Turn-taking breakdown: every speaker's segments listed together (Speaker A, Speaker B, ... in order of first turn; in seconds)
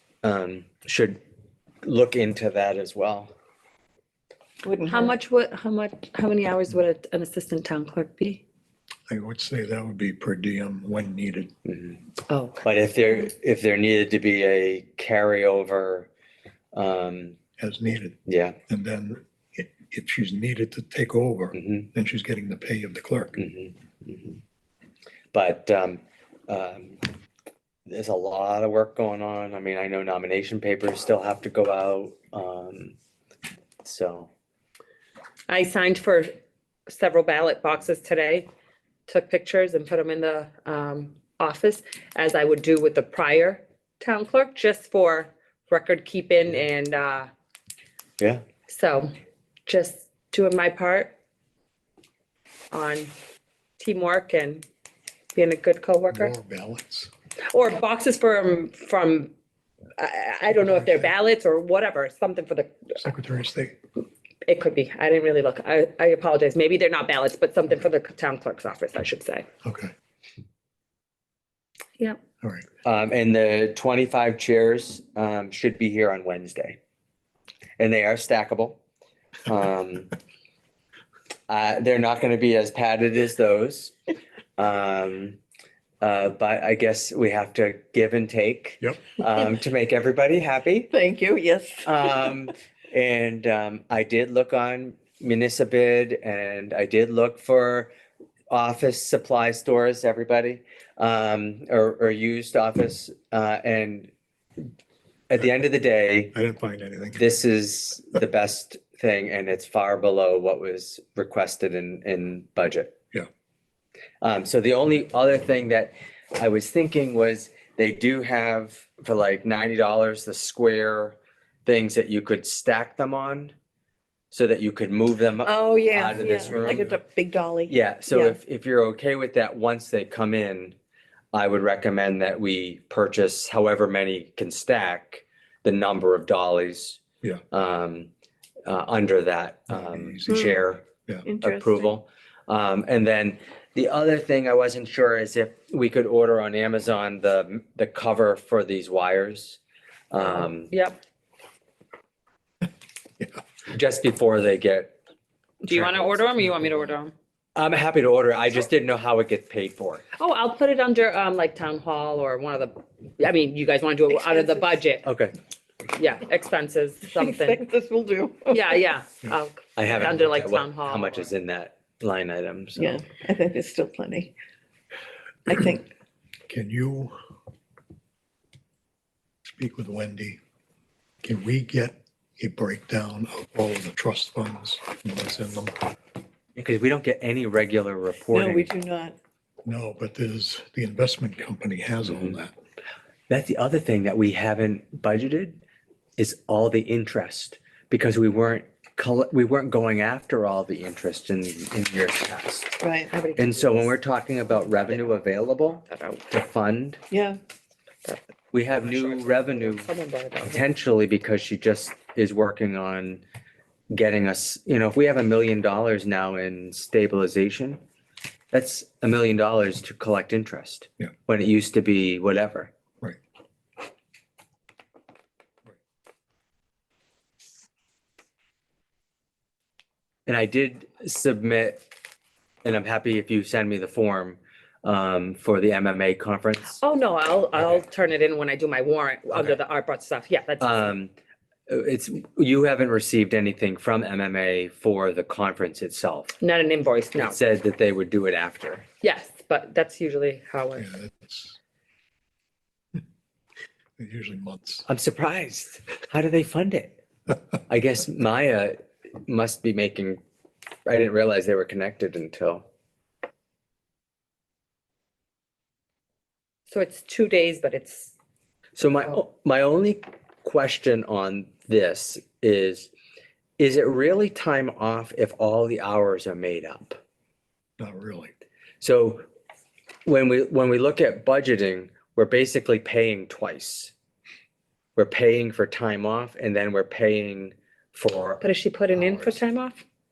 Speaker A: 0.2-1.2, 1.8-3.3, 11.7-12.0, 12.6-16.1, 16.7-17.4, 18.3-18.6, 21.5-21.9, 23.4-24.4, 25.3-27.0, 27.9-33.0, 33.8-34.3, 48.2-48.5, 72.8-76.8, 77.8-78.8, 79.5-80.2, 81.5-83.9, 84.6-85.4, 86.0-90.9, 91.8-97.9, 98.5-104.1, 105.3-106.3, 107.2-112.9, 114.2-123.5, 124.3-127.0, 127.7-130.8, 131.3-138.1, 138.7-140.9, 141.4-149.6, 150.1-150.7, 153.7-154.9, 157.6-160.1, 165.1-165.3, 169.8-173.0, 186.6-188.7, 192.1-192.4, 193.3-195.6, 196.2-202.8, 203.4-207.0, 208.5-209.9, 210.4-213.2, 213.9-217.8, 218.5-222.7, 230.3-231.8, 232.6-236.8, 240.6-241.1, 241.7-246.4, 247.2-248.9, 254.9-257.0, 257.7-260.2, 260.9-262.6, 268.8-272.9, 273.6-277.0, 278.8-279.2, 280.1-283.9, 285.0-288.4, 289.1-289.4
Speaker B: 4.6-5.2, 90.9-92.3, 125.4-128.4, 140.3-140.6, 141.2-141.9, 164.1-164.8, 167.1-168.8, 172.8-174.3, 175.5-175.9, 188.3-189.2, 202.8-203.1, 207.1-207.4
Speaker C: 4.9-8.4, 12.3-12.6, 35.5-36.3, 36.9-38.5, 39.1-47.3, 48.7-49.1, 49.7-51.1, 52.7-53.1, 53.8-54.6, 55.4-56.3, 57.5-59.3, 60.0-62.8, 64.5-69.5, 150.2-151.0, 155.6-157.1, 160.1-165.1, 165.9-167.6, 168.5-171.3, 203.1-203.9, 205.9-206.3, 208.9-210.6, 236.8-240.9, 246.4-247.4, 249.0-250.9, 266.7-268.1, 288.4-289.8
Speaker D: 9.1-11.5, 17.6-23.4, 56.1-57.1, 63.0-63.8, 69.6-69.9, 72.4-72.7, 106.3-107.3, 139.7-141.3, 176.5-177.2, 179.5-180.4, 181.2-185.8, 189.7-192.6, 250.8-251.6, 254.0-254.9, 277.8-278.3